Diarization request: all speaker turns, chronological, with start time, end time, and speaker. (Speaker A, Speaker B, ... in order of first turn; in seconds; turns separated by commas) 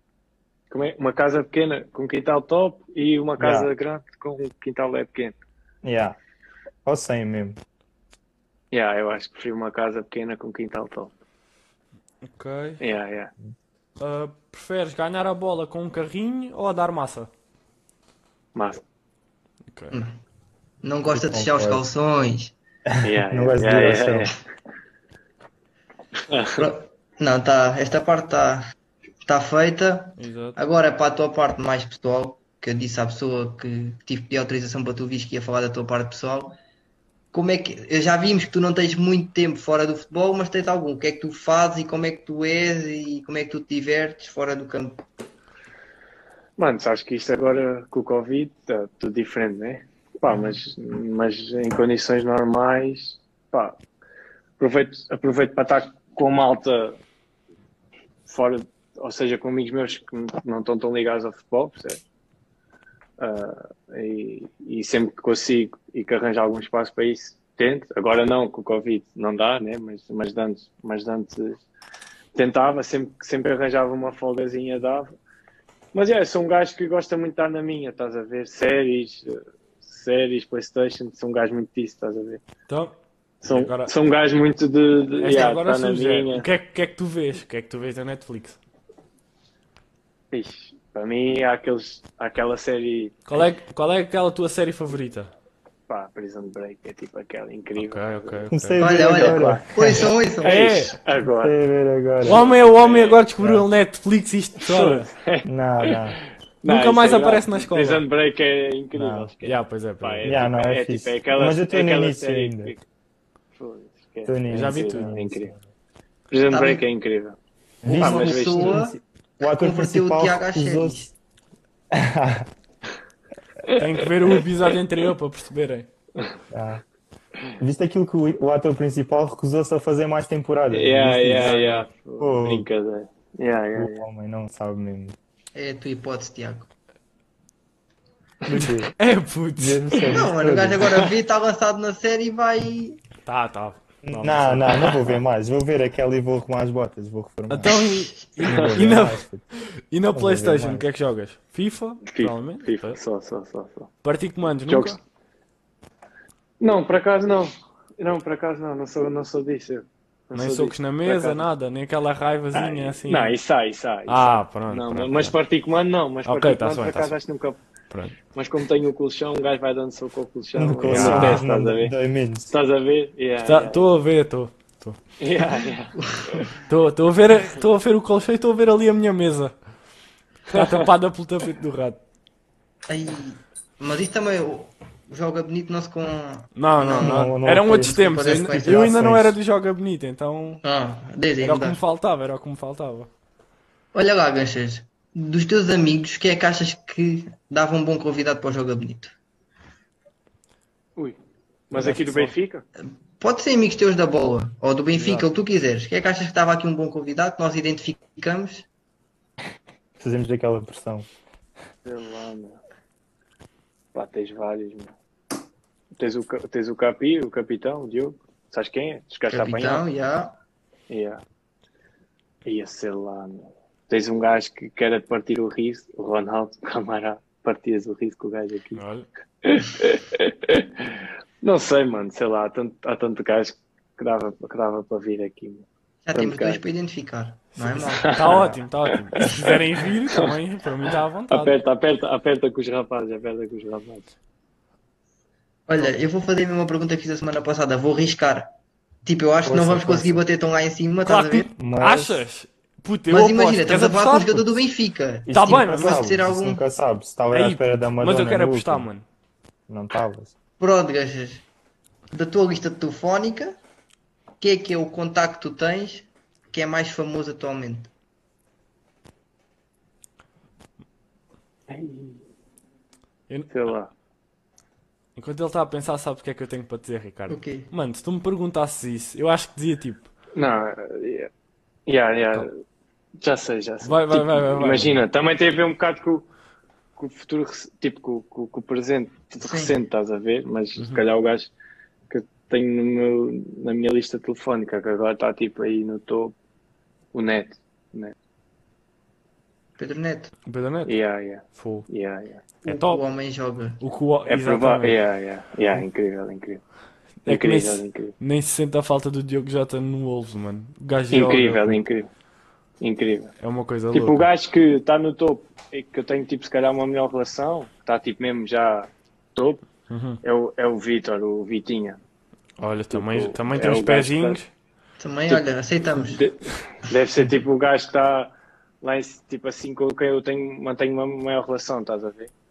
Speaker A: 0.7-5.3, Speaker B: 3.4-3.7, Speaker B: 5.8-6.2, Speaker B: 6.8-7.6, Speaker A: 8.7-11.1, Speaker C: 12.2-12.8, Speaker A: 12.8-13.3, Speaker C: 14.0-17.3, Speaker A: 18.5-18.8, Speaker C: 19.7-20.0, Speaker D: 20.8-22.5, Speaker B: 21.1-21.8, Speaker B: 22.9-24.3, Speaker A: 23.0-24.4, Speaker A: 26.3-26.7, Speaker D: 26.6-28.6, Speaker D: 29.2-36.5, Speaker C: 30.2-30.6, Speaker D: 37.3-45.0, Speaker A: 46.6-53.8, Speaker A: 54.6-57.0, Speaker A: 58.2-62.0, Speaker A: 63.2-71.6, Speaker A: 72.3-75.1, Speaker A: 75.9-82.4, Speaker C: 82.7-82.9, Speaker A: 83.4-86.5, Speaker C: 83.5-83.9, Speaker C: 85.2-88.6, Speaker A: 90.3-93.2, Speaker C: 93.3-95.3, Speaker A: 95.9-101.5, Speaker C: 97.8-98.8, Speaker B: 98.5-100.1, Speaker D: 98.8-100.7, Speaker C: 100.4-100.9, Speaker B: 101.3-102.5, Speaker C: 102.2-105.1, Speaker A: 102.2-103.2, Speaker B: 103.4-103.6, Speaker A: 104.6-106.0, Speaker B: 105.4-106.2, Speaker A: 106.6-112.8, Speaker C: 106.6-108.0, Speaker B: 108.9-109.3, Speaker C: 109.4-110.4, Speaker B: 110.2-112.7, Speaker A: 113.5-115.5, Speaker B: 114.2-115.6, Speaker C: 114.5-115.1, Speaker A: 116.3-117.4, Speaker D: 116.5-116.8, Speaker B: 117.8-121.1, Speaker D: 117.8-121.1, Speaker A: 118.0-118.8, Speaker B: 121.9-122.5, Speaker A: 123.6-124.4, Speaker C: 123.7-125.9, Speaker B: 126.5-126.8, Speaker B: 127.6-132.7, Speaker A: 130.7-134.1, Speaker B: 133.7-135.2, Speaker D: 135.5-136.7, Speaker B: 138.5-138.9, Speaker C: 138.5-140.2, Speaker B: 139.6-141.0, Speaker D: 140.1-143.0, Speaker C: 143.2-145.0, Speaker B: 144.0-147.8, Speaker C: 147.5-149.2, Speaker B: 148.4-149.4, Speaker A: 148.5-148.8, Speaker C: 149.9-153.0, Speaker B: 150.1-150.9, Speaker A: 152.1-153.9, Speaker C: 154.0-155.0, Speaker A: 154.7-155.0, Speaker A: 156.6-161.4, Speaker C: 160.3-163.3, Speaker A: 162.5-167.6, Speaker C: 164.1-165.3, Speaker C: 166.2-167.1, Speaker C: 167.9-168.2, Speaker A: 168.3-171.9, Speaker B: 170.6-172.5, Speaker C: 170.9-171.4, Speaker A: 172.5-174.0, Speaker C: 173.4-175.0, Speaker A: 175.2-176.5, Speaker D: 175.9-176.5, Speaker C: 176.7-179.5, Speaker A: 180.5-180.8, Speaker C: 180.5-182.0, Speaker D: 182.9-189.1, Speaker C: 186.6-190.6, Speaker B: 186.9-189.3, Speaker D: 190.6-191.8, Speaker C: 191.4-193.1, Speaker D: 193.9-199.1, Speaker A: 201.7-202.6, Speaker C: 201.7-202.3, Speaker D: 202.8-208.7, Speaker B: 210.0-211.1, Speaker A: 211.8-212.6, Speaker A: 213.9-214.9, Speaker A: 216.0-219.9, Speaker D: 219.3-220.3, Speaker A: 220.9-221.2, Speaker A: 222.4-228.8, Speaker C: 228.8-229.1, Speaker A: 229.4-236.6, Speaker D: 236.1-238.1, Speaker C: 237.6-241.5, Speaker A: 238.0-239.6, Speaker B: 238.3-238.6, Speaker A: 241.3-244.0, Speaker D: 245.7-248.5, Speaker D: 249.0-251.5, Speaker B: 249.4-250.2, Speaker C: 251.0-254.6, Speaker B: 251.6-252.2, Speaker D: 253.1-256.6, Speaker B: 255.3-258.9, Speaker C: 255.3-256.0, Speaker C: 257.3-259.0, Speaker B: 259.7-260.3, Speaker D: 260.6-261.4, Speaker D: 262.1-263.6, Speaker D: 264.4-267.9, Speaker A: 271.7-272.2, Speaker C: 273.3-273.6, Speaker A: 273.5-273.9, Speaker C: 275.1-280.1, Speaker D: 277.3-277.7, Speaker A: 280.3-281.3, Speaker A: 281.9-282.6, Speaker A: 283.2-286.2, Speaker C: 283.8-285.0, Speaker A: 287.0-291.5, Speaker D: 289.4-289.7, Speaker C: 290.8-291.0, Speaker A: 292.1-296.3, Speaker A: 297.1-298.1, Speaker D: 299.8-300.3, Speaker C: 300.4-301.9, Speaker A: 300.8-302.5, Speaker C: 302.6-303.0, Speaker D: 302.6-303.8, Speaker C: 303.8-305.0, Speaker A: 304.3-306.6, Speaker C: 307.2-311.8, Speaker A: 307.2-308.1, Speaker A: 311.1-312.1, Speaker A: 312.8-313.3, Speaker C: 313.4-314.2, Speaker A: 313.9-319.6, Speaker C: 319.9-320.2, Speaker A: 320.2-322.0, Speaker C: 322.6-324.5, Speaker A: 322.9-324.4, Speaker D: 325.0-326.2, Speaker A: 325.3-332.3